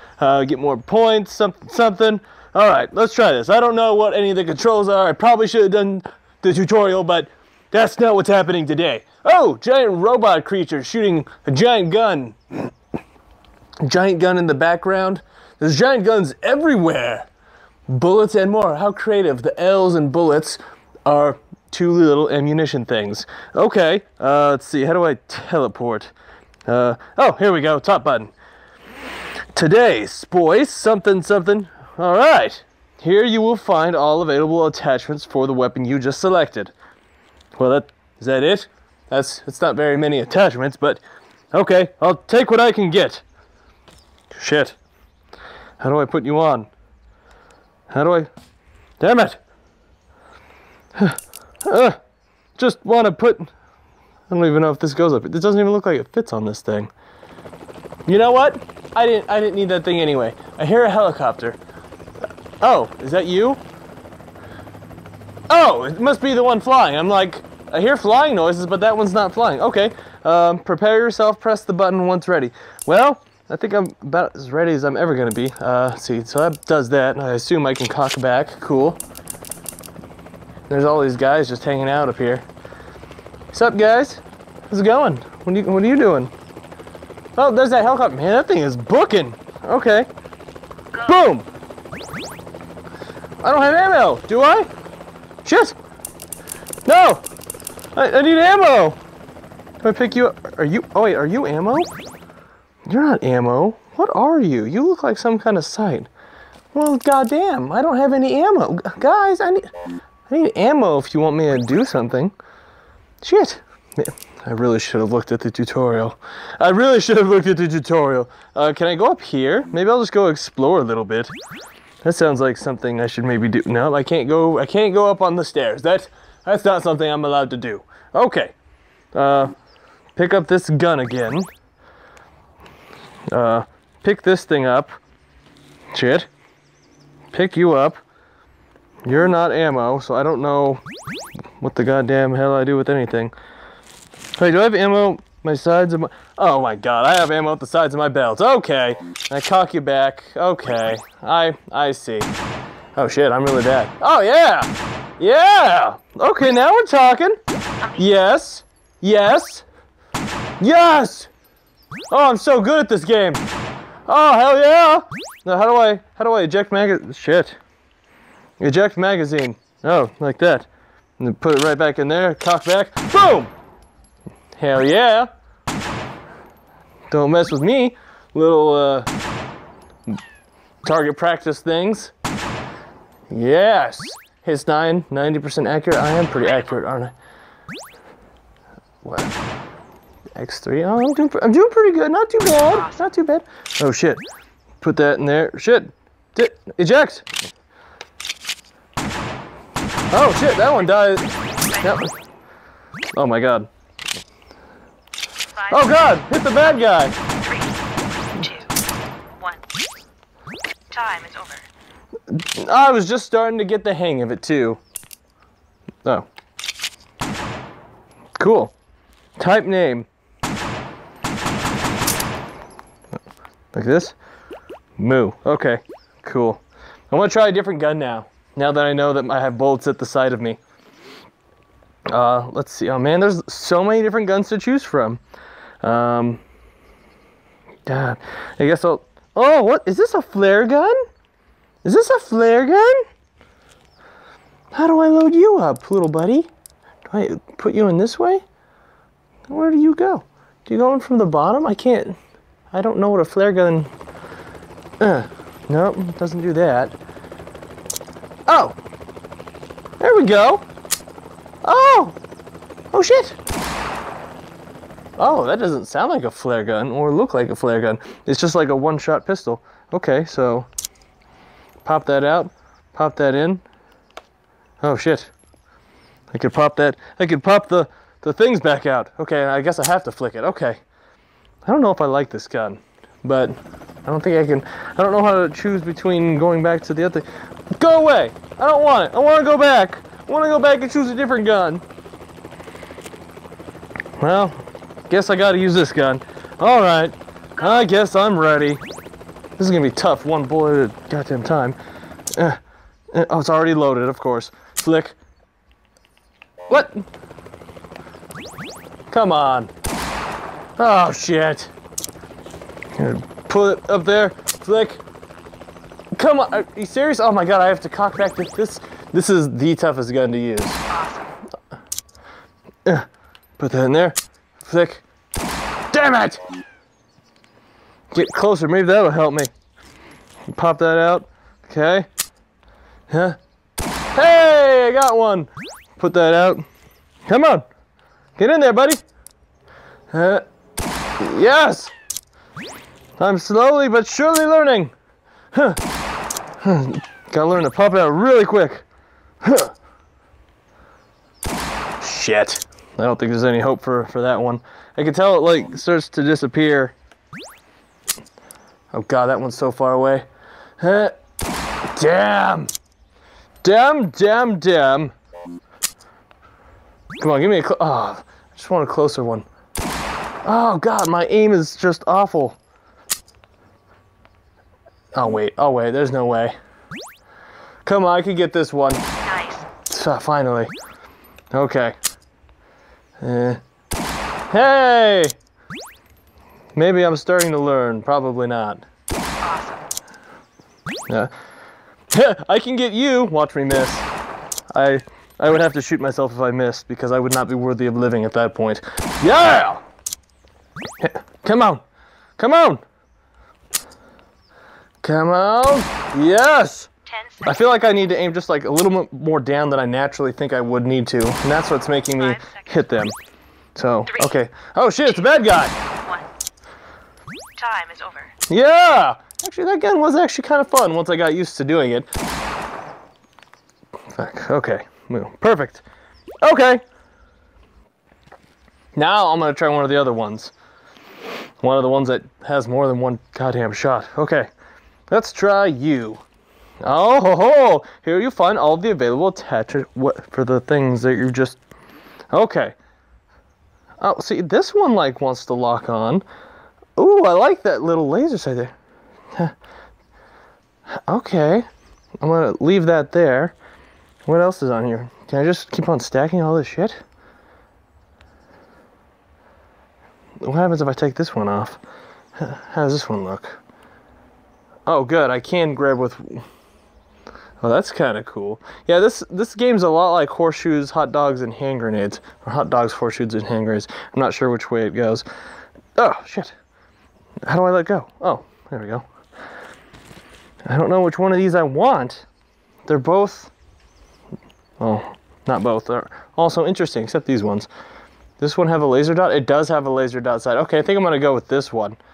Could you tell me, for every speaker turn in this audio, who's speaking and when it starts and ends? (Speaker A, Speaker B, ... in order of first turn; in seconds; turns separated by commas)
Speaker A: 0.2-12.7, Speaker A: 13.8-17.3, Speaker A: 17.9-26.1, Speaker A: 26.7-28.3, Speaker A: 29.5-36.7, Speaker A: 37.6-41.0, Speaker A: 41.5-43.2, Speaker A: 44.3-44.8, Speaker A: 45.8-46.7, Speaker A: 47.9-48.3, Speaker A: 49.0-49.4, Speaker A: 51.0-52.0, Speaker A: 52.6-53.5, Speaker A: 54.3-56.9, Speaker A: 58.0-61.6, Speaker A: 62.6-63.6, Speaker A: 65.5-79.0, Speaker A: 80.7-82.5, Speaker A: 83.5-86.3, Speaker A: 87.3-90.1, Speaker A: 91.0-91.5, Speaker A: 93.4-94.7, Speaker A: 95.4-95.8, Speaker A: 96.8-97.2, Speaker A: 98.0-99.0, Speaker A: 99.8-101.9, Speaker A: 102.9-106.1, Speaker A: 106.7-109.7, Speaker A: 110.3-112.3, Speaker A: 113.2-121.3, Speaker A: 122.0-128.5, Speaker A: 129.1-129.5, Speaker A: 130.2-131.5, Speaker A: 133.3-135.0, Speaker A: 135.9-136.3, Speaker A: 137.3-138.0, Speaker A: 139.0-140.8, Speaker A: 141.6-143.3, Speaker A: 144.4-152.3, Speaker A: 152.9-157.4, Speaker A: 158.0-159.6, Speaker A: 160.6-161.3, Speaker A: 162.1-163.4, Speaker A: 164.1-167.6, Speaker A: 168.6-173.5, Speaker A: 174.6-175.3, Speaker A: 177.1-179.1, Speaker A: 180.8-182.1, Speaker A: 183.3-187.1, Speaker B: 186.4-186.8, Speaker A: 189.0-189.3, Speaker A: 190.4-194.2, Speaker B: 192.6-193.0, Speaker A: 194.8-197.3, Speaker A: 200.1-202.1, Speaker B: 200.2-200.9, Speaker B: 201.6-201.9, Speaker A: 203.1-203.7, Speaker B: 205.5-206.2, Speaker A: 205.7-207.1, Speaker B: 207.4-207.8, Speaker B: 208.3-208.7, Speaker B: 210.9-211.7, Speaker A: 212.3-214.8, Speaker A: 218.4-218.7, Speaker A: 219.4-220.1, Speaker A: 223.7-224.1, Speaker A: 225.0-230.6, Speaker A: 232.1-235.2, Speaker A: 235.8-236.4, Speaker A: 237.8-241.0, Speaker A: 241.8-243.0, Speaker A: 244.7-246.5, Speaker A: 247.1-248.4, Speaker A: 249.5-252.2, Speaker A: 252.7-253.9, Speaker A: 255.0-256.9, Speaker A: 258.5-258.8, Speaker A: 260.0-260.6, Speaker A: 261.6-262.2, Speaker A: 262.9-263.4, Speaker A: 265.2-270.7, Speaker A: 271.8-273.6, Speaker A: 274.8-275.3, Speaker A: 276.3-280.8, Speaker A: 281.6-287.2, Speaker A: 287.8-291.8, Speaker A: 294.2-298.8, Speaker B: 297.6-297.9, Speaker A: 299.6-301.8, Speaker A: 303.1-305.1, Speaker A: 306.7-307.0, Speaker A: 309.1-309.7, Speaker A: 310.8-311.7, Speaker A: 313.0-315.0, Speaker A: 316.1-320.8, Speaker B: 320.9-321.3, Speaker A: 323.6-325.0, Speaker A: 325.9-326.4, Speaker A: 328.1-329.5, Speaker A: 330.5-332.1, Speaker A: 333.1-333.4, Speaker A: 334.1-336.6, Speaker A: 337.3-337.6, Speaker A: 338.4-339.0, Speaker A: 340.1-340.4, Speaker A: 341.2-341.9, Speaker A: 343.2-344.9, Speaker A: 345.5-345.8, Speaker A: 346.6-348.8, Speaker A: 349.4-349.7, Speaker A: 352.0-356.9, Speaker A: 358.9-360.3, Speaker A: 360.8-361.1, Speaker A: 361.9-362.7, Speaker A: 363.6-365.1, Speaker A: 367.2-369.5, Speaker A: 370.4-372.6, Speaker A: 375.1-376.5, Speaker A: 377.8-379.0, Speaker B: 379.2-379.7, Speaker A: 379.9-380.7, Speaker A: 381.5-381.9, Speaker A: 383.2-383.6, Speaker A: 384.5-385.3, Speaker A: 386.7-388.8, Speaker B: 389.4-389.8, Speaker A: 392.1-394.1, Speaker A: 394.7-399.8, Speaker A: 401.0-401.8, Speaker A: 402.4-402.8, Speaker A: 405.0-406.9, Speaker B: 407.1-407.7, Speaker A: 407.4-413.1, Speaker B: 412.2-412.8, Speaker A: 413.7-415.7, Speaker B: 414.1-414.3, Speaker B: 415.1-415.3, Speaker B: 416.0-416.3, Speaker B: 417.6-418.3, Speaker A: 418.5-422.1, Speaker A: 424.1-425.8, Speaker A: 426.4-426.8, Speaker A: 428.9-430.5, Speaker A: 431.6-434.5, Speaker A: 435.1-436.2, Speaker A: 436.8-441.6, Speaker A: 442.3-442.8, Speaker A: 444.0-446.2, Speaker A: 446.9-448.7, Speaker A: 451.1-451.6, Speaker A: 452.2-453.6, Speaker A: 454.2-457.0, Speaker A: 460.4-461.8, Speaker A: 462.4-463.6, Speaker A: 464.9-466.4, Speaker A: 467.6-475.2, Speaker A: 475.9-476.5, Speaker A: 477.4-479.1, Speaker A: 480.6-482.2, Speaker A: 482.9-483.5, Speaker A: 484.8-487.7, Speaker A: 488.4-492.0